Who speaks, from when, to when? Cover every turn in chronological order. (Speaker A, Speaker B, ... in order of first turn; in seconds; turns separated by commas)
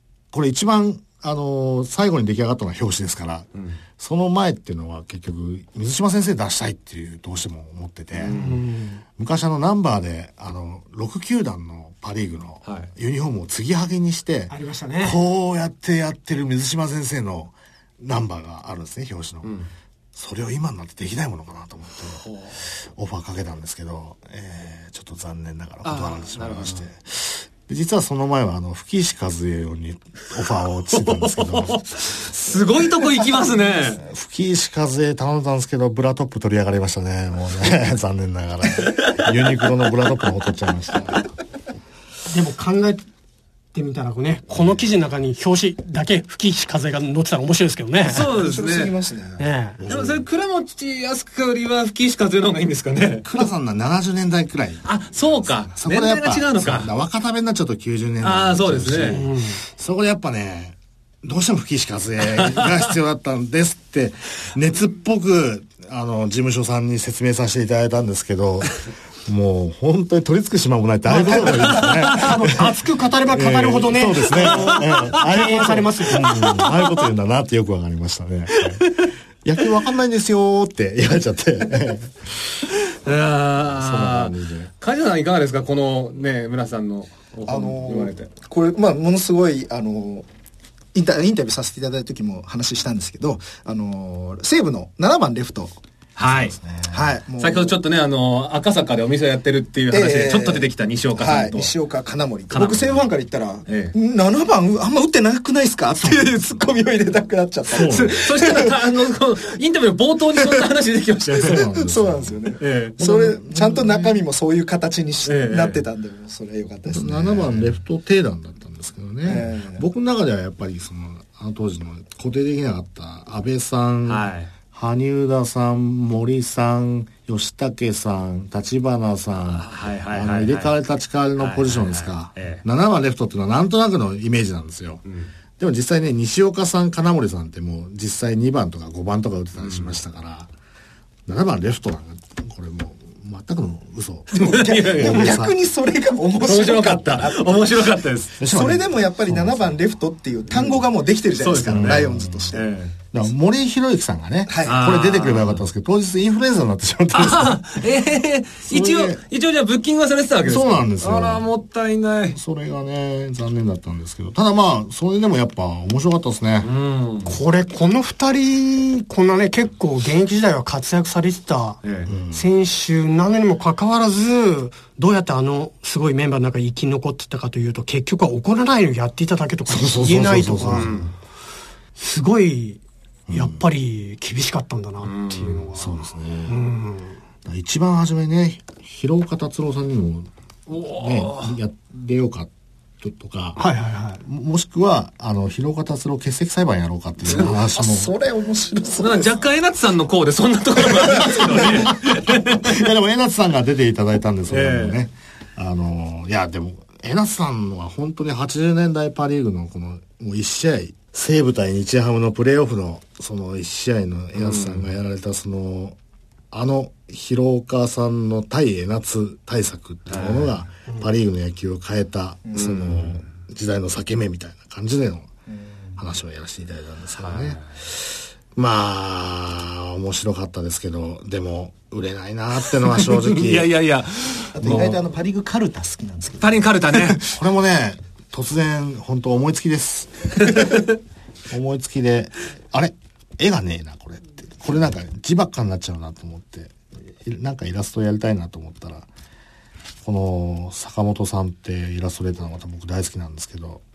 Speaker A: 0.3-8.4, Speaker B: 8.2-8.6, Speaker C: 8.3-9.0, Speaker A: 9.2-19.5, Speaker C: 14.5-15.2, Speaker B: 19.4-19.7, Speaker A: 20.1-31.9, Speaker B: 22.2-22.5, Speaker B: 25.9-26.9, Speaker B: 30.9-34.0, Speaker A: 34.0-41.2, Speaker B: 38.8-39.3, Speaker C: 42.3-43.0, Speaker C: 43.7-48.3, Speaker B: 48.1-48.9, Speaker D: 48.3-49.4, Speaker C: 49.4-49.8, Speaker A: 49.8-50.2, Speaker B: 49.9-53.3, Speaker A: 53.2-72.8, Speaker B: 54.9-56.9, Speaker B: 58.2-59.2, Speaker C: 59.0-59.6, Speaker B: 62.4-62.7, Speaker C: 71.1-76.3, Speaker B: 71.5-72.1, Speaker A: 73.3-78.9, Speaker B: 74.6-74.9, Speaker B: 76.1-77.0, Speaker B: 78.6-79.1, Speaker A: 79.4-82.6, Speaker B: 82.8-88.3, Speaker A: 83.7-84.7, Speaker D: 87.5-90.3, Speaker D: 90.9-95.8, Speaker B: 96.2-96.6, Speaker A: 96.2-97.1, Speaker D: 96.9-97.8, Speaker B: 97.4-101.7, Speaker D: 99.9-108.8, Speaker B: 102.5-103.0, Speaker B: 103.7-103.9, Speaker B: 107.7-111.7, Speaker A: 107.7-108.1, Speaker D: 110.3-110.7, Speaker D: 111.4-117.7, Speaker A: 111.4-114.1, Speaker B: 112.6-113.0, Speaker B: 115.2-115.8, Speaker A: 116.8-135.0, Speaker D: 119.2-119.8, Speaker B: 124.1-124.5, Speaker B: 129.6-130.7, Speaker B: 131.4-132.6, Speaker B: 135.1-135.3, Speaker A: 135.6-140.5, Speaker B: 139.6-139.9, Speaker A: 141.3-145.6, Speaker D: 144.3-147.8, Speaker B: 144.3-145.4, Speaker B: 146.4-148.4, Speaker A: 148.4-149.8, Speaker D: 148.5-152.7, Speaker B: 151.4-152.9, Speaker A: 151.7-152.6, Speaker A: 153.1-157.6, Speaker D: 154.5-154.8, Speaker B: 154.6-155.6, Speaker B: 157.1-162.4, Speaker A: 158.7-159.2, Speaker A: 160.4-161.4, Speaker A: 162.3-166.7, Speaker B: 166.6-167.4, Speaker C: 167.2-180.9, Speaker B: 171.8-172.1, Speaker A: 172.1-172.4, Speaker A: 179.7-181.1, Speaker B: 180.7-181.1, Speaker C: 181.9-185.9, Speaker A: 183.3-183.6, Speaker B: 185.0-185.7, Speaker A: 185.8-186.6, Speaker C: 186.5-187.2, Speaker A: 187.4-192.5, Speaker B: 190.7-191.5, Speaker A: 193.0-193.6, Speaker C: 193.6-194.2, Speaker A: 194.2-198.1, Speaker D: 197.2-199.4, Speaker B: 199.0-202.9, Speaker D: 200.8-201.9, Speaker A: 201.2-216.0, Speaker B: 204.5-205.0, Speaker B: 214.3-214.8, Speaker A: 216.5-225.3, Speaker B: 220.1-220.5, Speaker D: 222.4-222.8, Speaker B: 222.6-223.2, Speaker D: 225.5-226.0, Speaker A: 226.0-233.7, Speaker B: 227.2-227.6, Speaker B: 232.8-235.0, Speaker D: 234.6-237.2, Speaker A: 234.6-234.9, Speaker B: 236.4-237.2, Speaker A: 237.2-240.8, Speaker A: 241.5-249.1, Speaker A: 250.0-253.8